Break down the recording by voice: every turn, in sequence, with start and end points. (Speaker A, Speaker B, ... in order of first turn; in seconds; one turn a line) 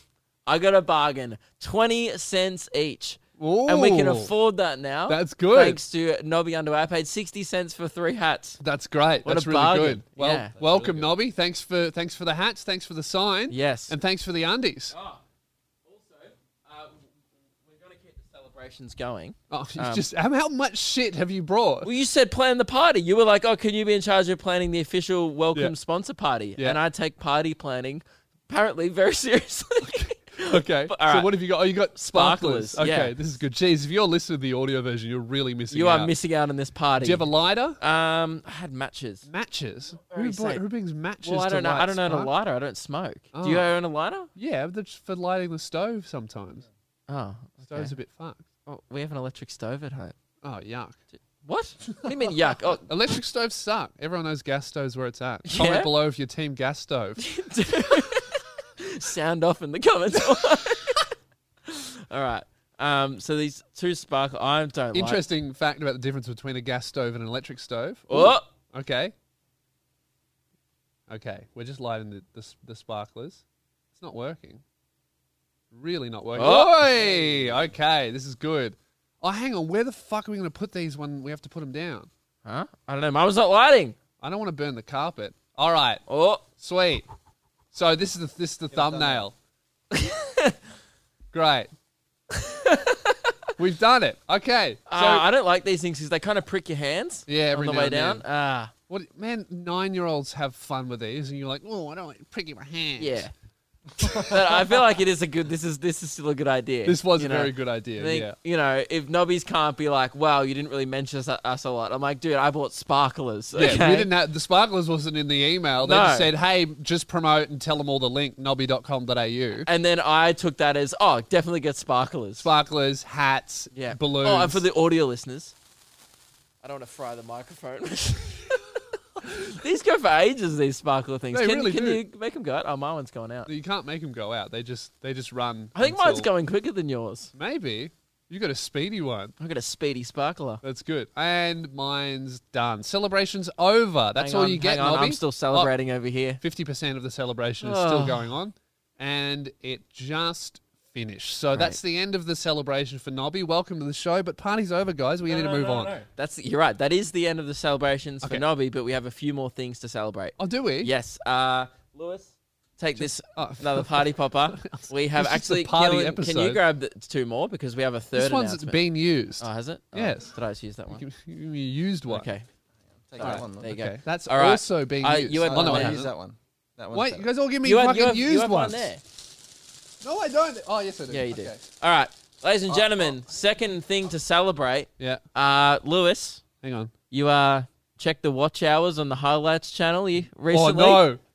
Speaker A: 0.5-8.6
Speaker B: 3.4-4.3
Speaker B: 5.1-5.8
Speaker B: 8.6-14.9
Speaker A: 9.2-10.5
Speaker C: 10.6-11.1
Speaker A: 13.5-13.9
Speaker A: 14.9-15.2
Speaker A: 15.9-17.1
Speaker A: 17.6-20.1
Speaker B: 19.5-21.9
Speaker A: 21.8-31.3
Speaker B: 30.4-36.1
Speaker A: 31.9-33.1
Speaker A: 35.7-37.3
Speaker B: 37.0-37.8
Speaker A: 37.8-39.3
Speaker B: 39.3-42.3
Speaker A: 40.1-40.6
Speaker A: 41.2-44.3
Speaker B: 43.3-43.7
Speaker B: 44.4-46.6
Speaker A: 47.1-47.9
Speaker B: 47.7-48.4
Speaker A: 48.7-50.1
Speaker B: 50.4-51.0
Speaker A: 51.4-52.9
Speaker B: 52.9-57.2
Speaker A: 55.5-55.9
Speaker A: 57.2-61.1
Speaker A: 61.7-65.2
Speaker B: 64.9-69.1
Speaker A: 68.1-68.5
Speaker B: 71.1-73.4
Speaker B: 74.0-74.6
Speaker B: 75.7-82.1
Speaker A: 76.3-76.8
Speaker A: 82.5-84.0
Speaker B: 84.2-86.0
Speaker A: 86.1-86.4
Speaker B: 86.6-87.1
Speaker B: 87.7-89.3
Speaker C: 88.7-89.2
Speaker A: 89.9-90.6
Speaker B: 91.3-91.7
Speaker A: 92.4-93.3
Speaker B: 93.6-95.2
Speaker A: 94.9-98.7
Speaker B: 97.3-98.2
Speaker B: 98.9-103.3
Speaker A: 103.0-103.3
Speaker A: 104.1-114.1
Speaker B: 104.1-104.4
Speaker B: 106.8-108.3
Speaker B: 113.5-119.7
Speaker A: 115.8-116.3
Speaker A: 119.7-122.5
Speaker B: 122.4-124.6
Speaker A: 123.7-125.5
Speaker A: 126.6-133.5
Speaker B: 131.3-132.0
Speaker B: 133.5-136.3
Speaker A: 135.8-137.3
Speaker B: 137.3-139.3
Speaker A: 139.4-140.6
Speaker B: 140.6-145.7
Speaker A: 144.2-146.4
Speaker B: 146.4-156.0
Speaker A: 147.6-148.3
Speaker A: 155.3-168.8
Speaker B: 160.4-160.9
Speaker B: 162.9-166.6
Speaker B: 168.2-170.3
Speaker A: 169.4-171.0
Speaker B: 170.9-172.3
Speaker A: 172.1-172.5
Speaker C: 173.1-173.7
Speaker A: 173.2-176.0
Speaker B: 173.2-176.1
Speaker C: 175.4-177.3
Speaker B: 176.9-178.9
Speaker A: 177.6-179.0
Speaker B: 180.0-181.6
Speaker A: 181.1-186.4
Speaker B: 186.6-186.9
Speaker A: 187.1-191.1
Speaker B: 190.5-191.2